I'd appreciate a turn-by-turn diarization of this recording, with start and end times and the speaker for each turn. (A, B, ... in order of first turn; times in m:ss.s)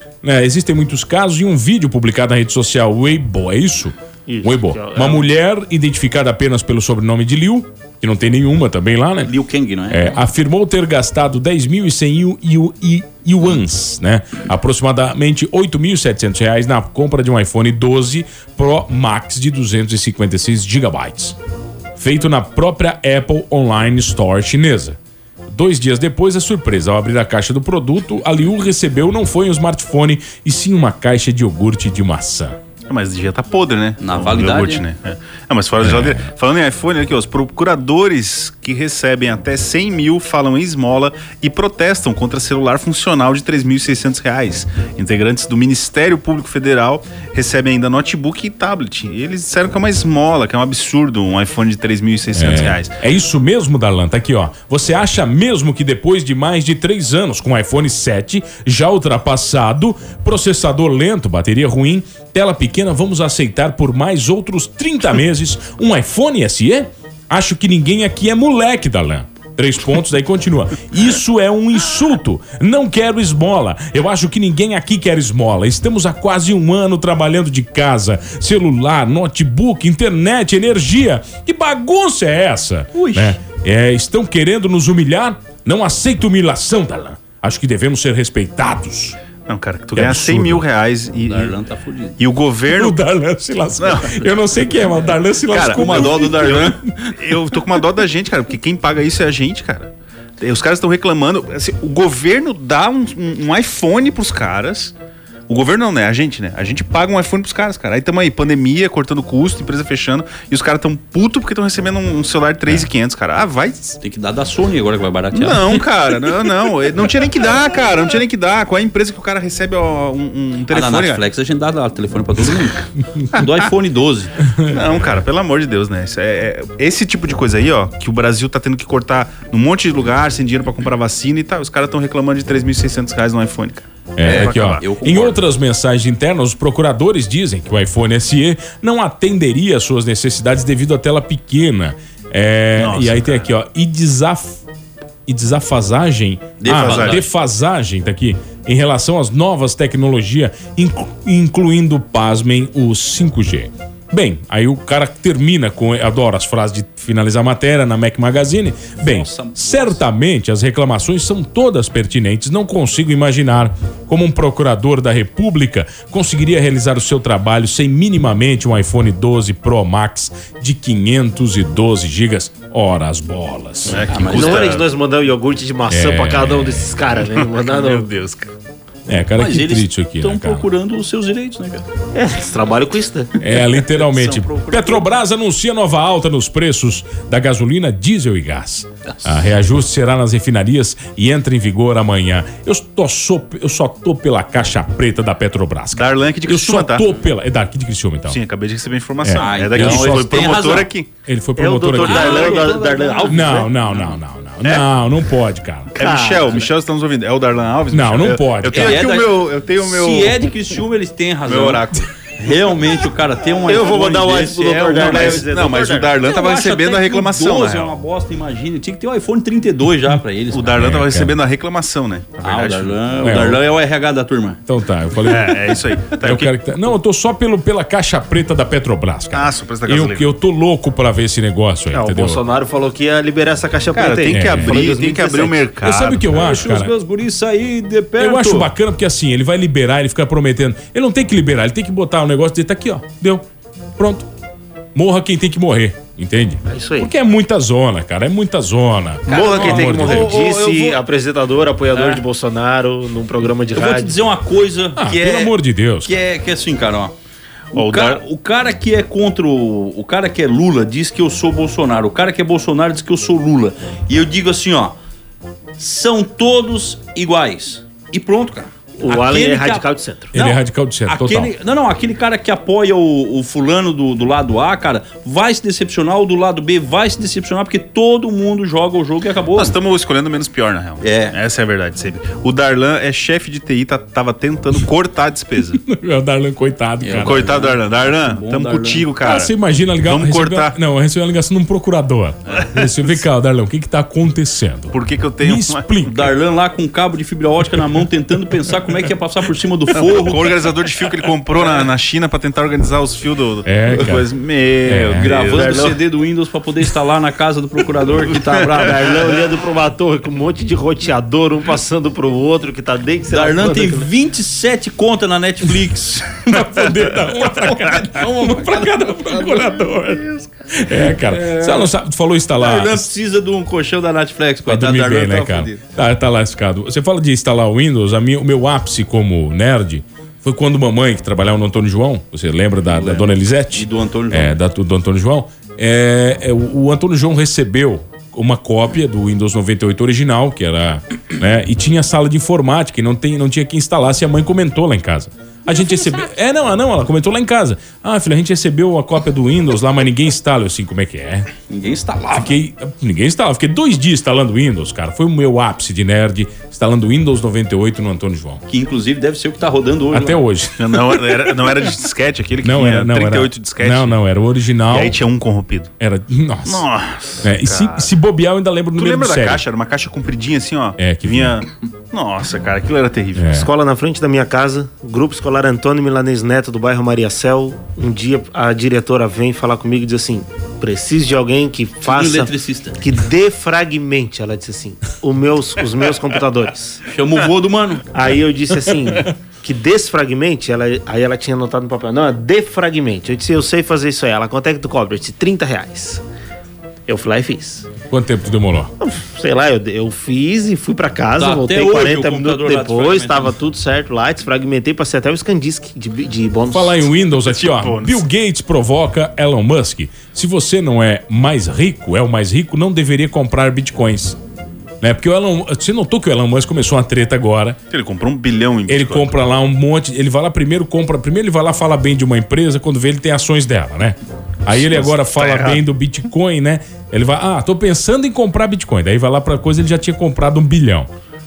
0:00.2-0:09.3 A
0:04.3-0:05.2 B
0:09.2-0:10.2 C
0:09.9-0:21.4 A
0:22.0-0:32.6 A
0:32.9-0:52.9 D
0:34.0-0:34.8 C
0:35.8-0:36.2 A
0:52.3-1:29.2 A
1:22.9-1:23.4 C
1:29.5-1:31.6 D
1:29.9-1:30.7 A
1:31.2-1:32.2 C
1:32.2-1:33.0 D
1:32.7-1:36.8 A
1:33.8-1:34.3 D
1:35.5-1:44.9 D
1:35.6-1:36.8 C
1:45.5-1:54.0 D
1:54.0-1:55.9 C
1:55.3-2:01.2 D
2:00.7-2:04.4 C
2:04.5-2:04.8 A
2:04.7-2:14.9 D
2:14.1-2:24.6 A
2:14.2-2:15.4 C
2:22.8-2:23.5 D
2:25.3-2:54.0 A
2:26.6-2:27.2 C
2:26.7-2:27.2 D
2:39.0-2:40.0 C
2:53.8-2:54.9 D
2:54.1-2:54.7 C
2:54.3-2:58.1 B
2:55.9-2:57.0 A
2:57.6-2:58.5 D
2:59.1-3:00.7 A
2:59.4-3:01.8 C
3:02.1-3:03.3 B
3:03.4-3:18.4 A
3:03.7-3:05.2 C
3:09.1-3:09.4 C
3:15.9-3:17.1 D
3:18.3-3:21.1 D
3:19.2-3:20.6 A
3:19.3-3:20.9 C
3:21.2-3:22.6 A
3:21.6-3:23.7 B
3:22.0-3:23.7 C
3:23.2-3:25.9 A
3:25.9-3:30.4 D
3:26.0-3:26.6 B
3:27.9-3:29.1 A
3:28.7-3:35.5 C
3:31.4-3:32.1 D
3:33.7-3:36.1 B
3:35.0-3:37.9 D
3:36.2-3:40.8 C
3:40.5-3:43.0 D
3:40.7-3:41.4 A
3:42.4-3:44.6 C
3:43.2-3:43.6 A
3:44.7-3:52.4 A
3:45.2-3:46.5 D
3:49.3-3:50.3 D
3:51.9-3:55.7 B
3:53.9-3:56.4 D
3:54.2-3:54.8 A
3:55.8-3:56.9 A
3:56.3-3:58.7 C
3:58.2-4:03.4 A
4:04.0-4:04.3 A
4:04.9-4:10.4 A
4:06.7-4:07.1 B
4:09.3-4:11.0 C
4:09.3-4:14.1 B
4:11.9-4:12.2 C
4:13.7-4:17.1 C
4:15.0-4:16.1 A
4:17.7-4:25.0 C
4:17.7-4:18.2 D
4:25.8-4:39.8 C
4:29.0-4:30.3 B
4:30.3-4:31.5 A
4:39.5-4:45.8 D
4:41.0-4:41.4 C
4:45.8-4:47.6 A
4:47.0-4:49.1 C
4:47.2-4:49.5 D
4:49.2-4:56.2 A
4:50.0-4:50.8 D
4:52.6-4:52.9 D
4:54.9-4:55.8 D
4:56.0-5:00.7 C
4:59.9-5:06.0 D
5:03.6-5:04.3 A
5:04.8-5:05.6 A
5:05.2-5:08.9 C
5:08.5-5:14.1 B
5:13.3-5:16.5 C
5:16.4-5:23.1 A
5:17.4-5:19.8 C
5:21.1-5:21.9 C
5:22.6-5:25.8 C
5:24.7-5:51.5 A
5:32.9-5:34.6 C
5:51.7-5:52.5 C
5:52.3-5:58.6 A
5:58.7-6:00.4 C
6:00.1-6:01.4 A
6:00.8-6:04.2 D
6:02.6-6:05.2 A
6:04.9-6:05.9 D
6:06.0-6:06.8 A
6:06.6-6:08.1 D
6:07.4-6:09.6 A
6:09.0-6:13.5 D
6:11.0-6:11.6 A
6:13.3-6:13.7 A
6:13.5-6:27.0 B
6:22.1-6:23.0 C
6:27.0-6:28.1 C
6:28.1-6:36.2 B
6:37.1-6:37.9 B
6:38.1-6:38.9 A
6:39.0-6:47.1 B
6:41.4-6:43.5 C
6:46.7-6:54.4 A
6:47.4-6:48.2 D
6:55.0-6:57.8 A
6:57.9-6:59.3 D
6:58.9-7:11.1 A
7:04.7-7:05.8 D